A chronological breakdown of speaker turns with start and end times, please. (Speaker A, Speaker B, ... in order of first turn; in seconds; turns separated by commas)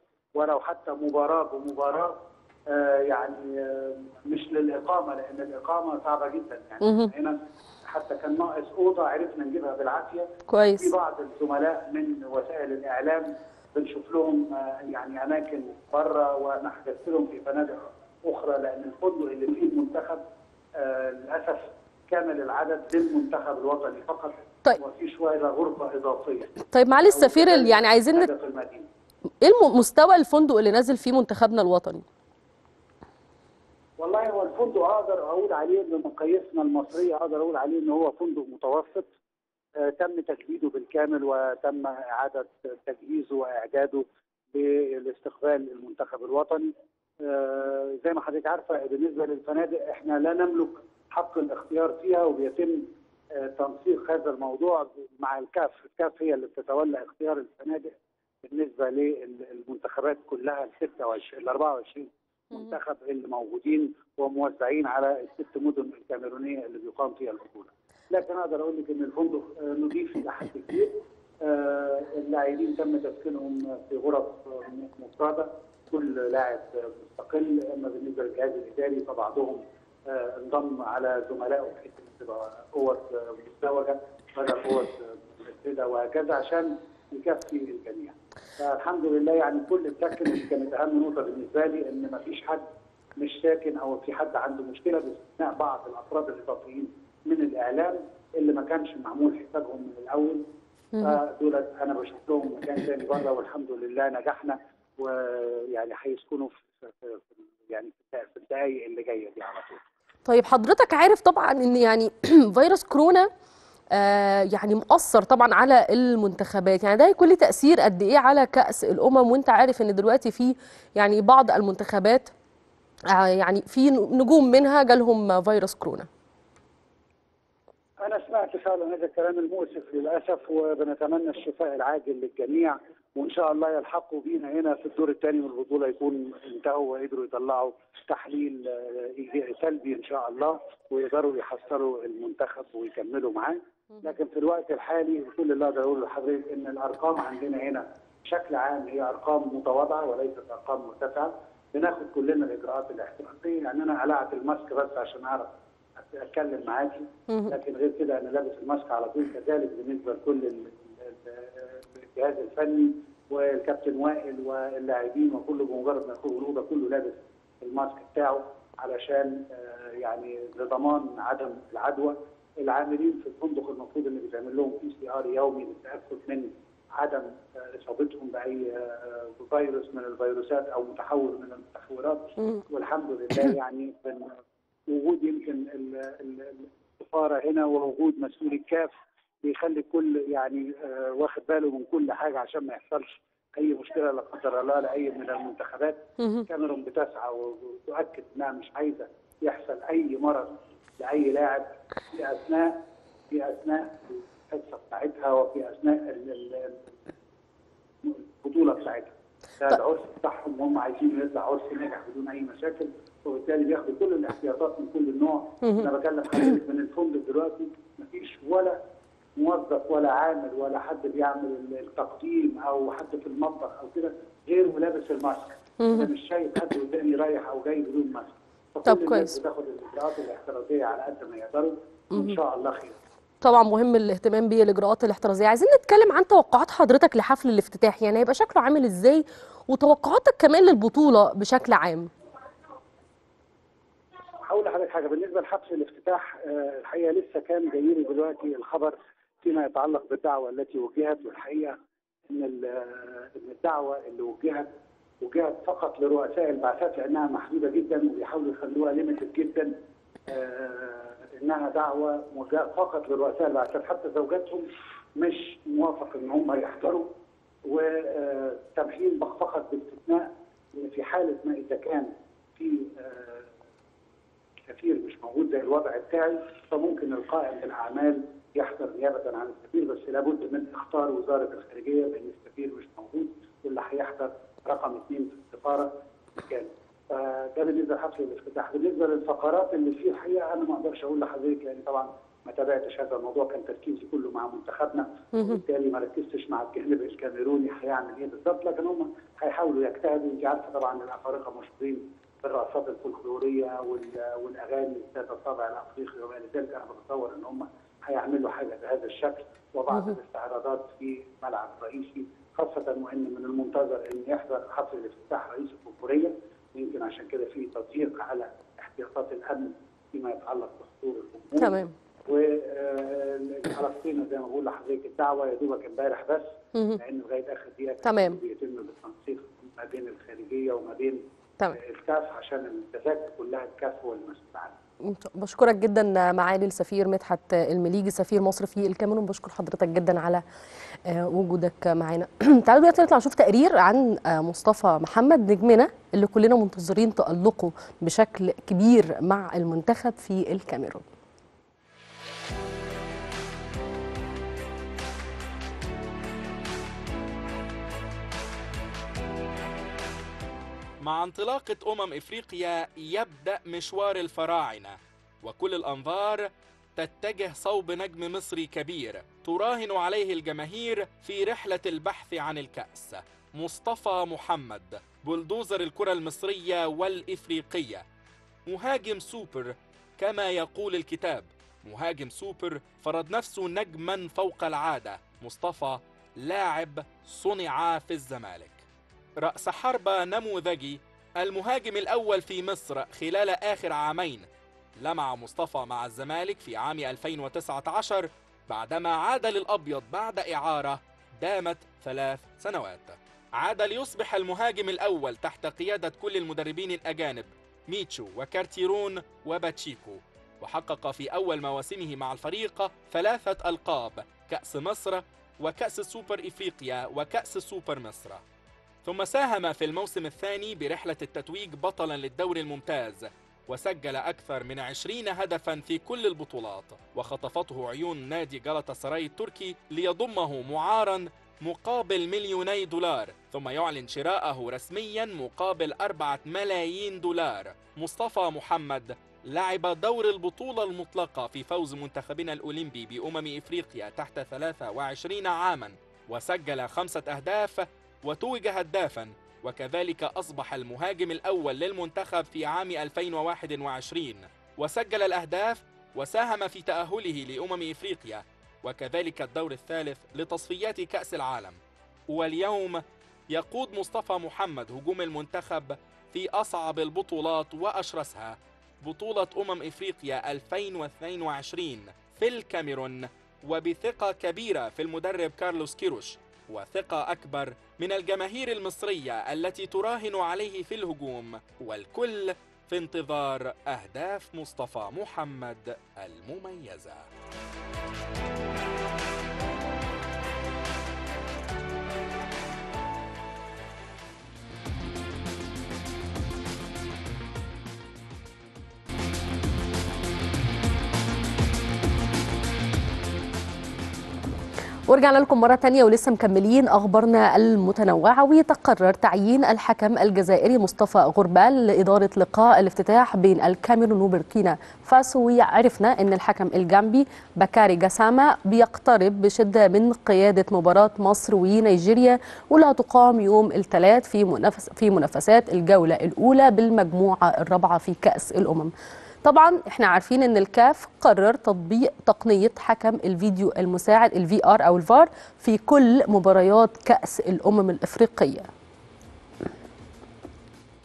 Speaker A: 0.3-10.3, Speaker B: 6.8-7.1, Speaker B: 10.5-10.9, Speaker A: 10.8-20.2, Speaker A: 20.8-28.9, Speaker B: 26.7-28.3, Speaker B: 29.4-32.0, Speaker A: 34.0-39.1, Speaker A: 39.8-57.9, Speaker A: 58.4-92.7, Speaker A: 93.2-100.5, Speaker B: 101.0-101.2, Speaker A: 101.0-109.8, Speaker B: 110.3-113.3, Speaker B: 113.9-122.3, Speaker B: 123.1-126.1, Speaker A: 128.0-184.3, Speaker B: 157.3-157.6, Speaker A: 184.9-206.9, Speaker B: 196.2-196.5, Speaker A: 208.0-218.8, Speaker B: 215.6-215.9, Speaker A: 219.4-233.0, Speaker B: 225.8-226.1, Speaker B: 228.8-229.4, Speaker B: 232.1-232.4, Speaker B: 233.4-242.1, Speaker A: 244.5-251.8, Speaker A: 252.3-254.7, Speaker A: 255.2-259.7, Speaker A: 260.3-267.1, Speaker A: 267.7-273.5, Speaker A: 274.7-331.2, Speaker B: 295.3-295.6, Speaker B: 321.6-321.9, Speaker B: 326.7-327.0, Speaker B: 328.0-328.4, Speaker A: 331.7-334.8, Speaker B: 335.0-340.4, Speaker B: 341.1-351.0, Speaker C: 361.0-378.0, Speaker C: 378.7-388.8, Speaker C: 389.4-394.5, Speaker C: 395.0-418.4, Speaker C: 419.0-461.8, Speaker C: 462.3-487.2, Speaker B: 505.1-528.9, Speaker B: 529.4-538.7